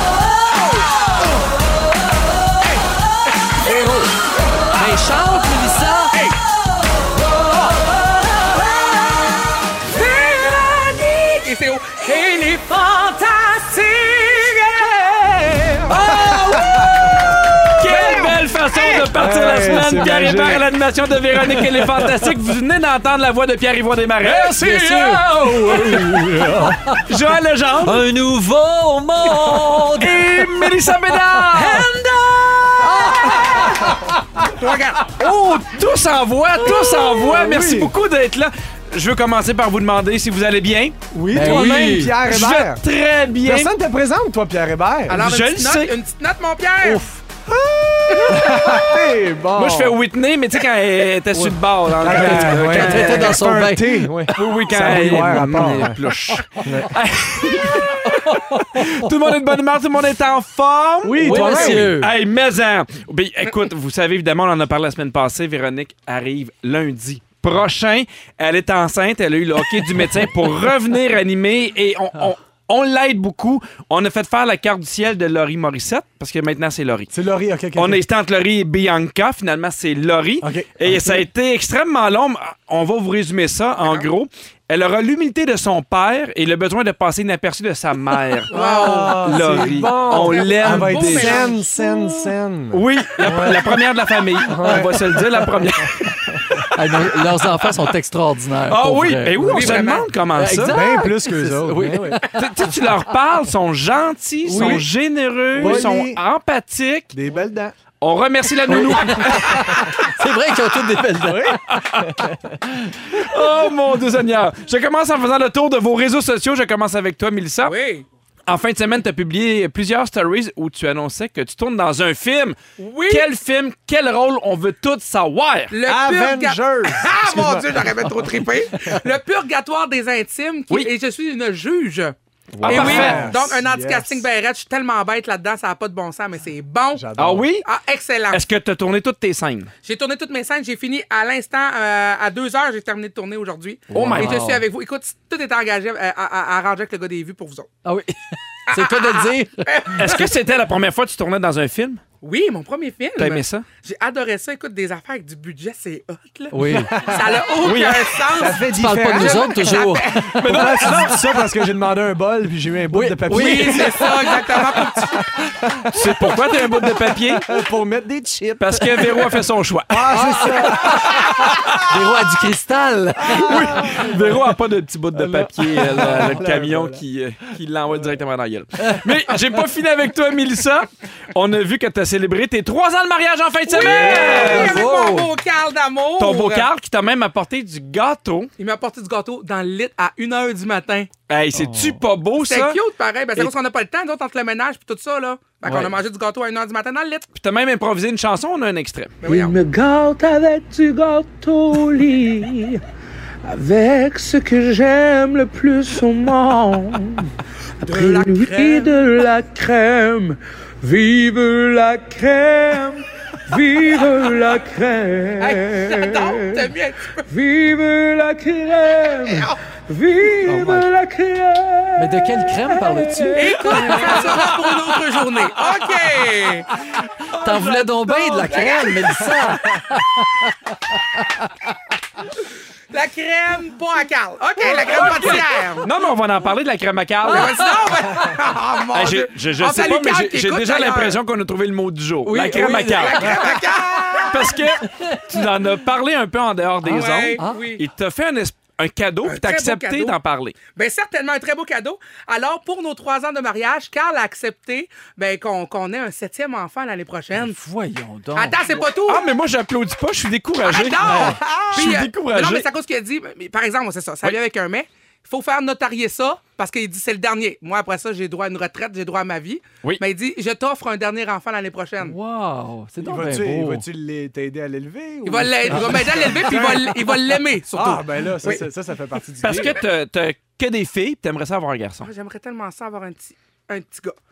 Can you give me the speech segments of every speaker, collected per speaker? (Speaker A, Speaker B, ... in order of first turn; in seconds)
Speaker A: 4.7-6.1, 24.2-27.0, 27.8-34.1, 41.3-42.2, 46.8-47.2, 51.3-54.2, 54.7-56.8, 58.0-59.3, 61.2-62.1, 94.6-95.1, 96.7-103.0, 104.4-104.8, 105.5-105.9, 108.7-111.6, 112.5-113.0, 128.0-129.0, 132.5-133.3, 143.9-144.7, 147.8-150.2, 156.5-157.1, 158.5-161.4, 162.9-164.7, 170.1-174.1, 175.9-176.4, 178.8-179.1, 183.8-185.3, 191.6-192.0, 220.4-220.9, 222.0-224.3, 227.3-231.5, 242.2-243.6, 246.8-247.6, 257.3-258.6, 272.0-273.9
Speaker B: 9.9-11.4, 12.1-15.9, 199.2-202.8, 203.4-207.3, 207.8-216.7, 217.2-224.5
Speaker C: 11.3-12.6, 34.5-35.1, 45.1-47.1, 83.8-84.1, 88.5-91.8, 99.4-100.1, 117.6-118.0, 122.8-123.3, 125.7-137.0, 137.6-138.4, 139.8-147.7, 148.7-150.3, 152.2-160.2, 163.3-165.2, 183.7-186.7, 188.6-191.1, 192.4-197.2, 199.2-199.6, 207.8-209.0, 215.4-217.2, 219.2-219.5, 223.3-226.7, 228.5-229.3, 232.9-235.9, 237.3-241.2, 242.9-244.4, 246.9-247.8, 249.2-250.2, 250.7-257.6, 258.3-259.2, 260.6-272.1, 275.2-278.6, 282.0-284.1
Speaker D: 15.9-17.0, 17.7-24.6, 25.5-26.1, 26.9-28.1, 29.9-31.9, 33.3-33.9, 35.2-43.8, 45.1-45.9, 49.5-53.5, 54.3-77.1, 77.8-91.5, 92.7-97.0, 97.6-97.9, 98.7-100.8, 102.3-107.1, 108.0-109.8, 111.7-112.1, 113.1-117.7, 118.5-122.6, 123.1-125.7, 132.5-133.3, 137.2-137.7, 138.3-139.7, 143.9-144.4, 149.9-152.0, 153.2-153.7, 157.6-158.2, 160.3-161.4, 165.9-167.5, 168.6-171.8, 173.3-184.8, 186.2-188.5, 191.3-192.8, 195.6-195.9, 197.3-199.2, 227.2-228.5, 234.8-237.7, 238.9-243.3, 244.2-250.6, 259.1-262.6, 279.4-282.1
Speaker E: 16.0-17.1, 19.1-20.7, 21.6-22.1, 24.4-26.8, 37.0-37.9, 41.1-42.8, 43.4-45.2, 47.5-50.0, 52.0-56.0, 56.6-56.9, 61.0-61.9, 77.1-78.0, 80.4-81.2, 88.5-93.8, 94.4-95.2, 95.8-96.4, 100.7-102.2, 104.5-104.8, 105.5-106.2, 107.1-107.7, 111.2-112.4, 125.8-127.8, 132.7-134.2, 136.9-137.5, 156.7-157.4, 158.3-159.8, 160.4-171.9, 173.2-174.2, 175.1-177.0, 261.0-261.9, 273.0-279.8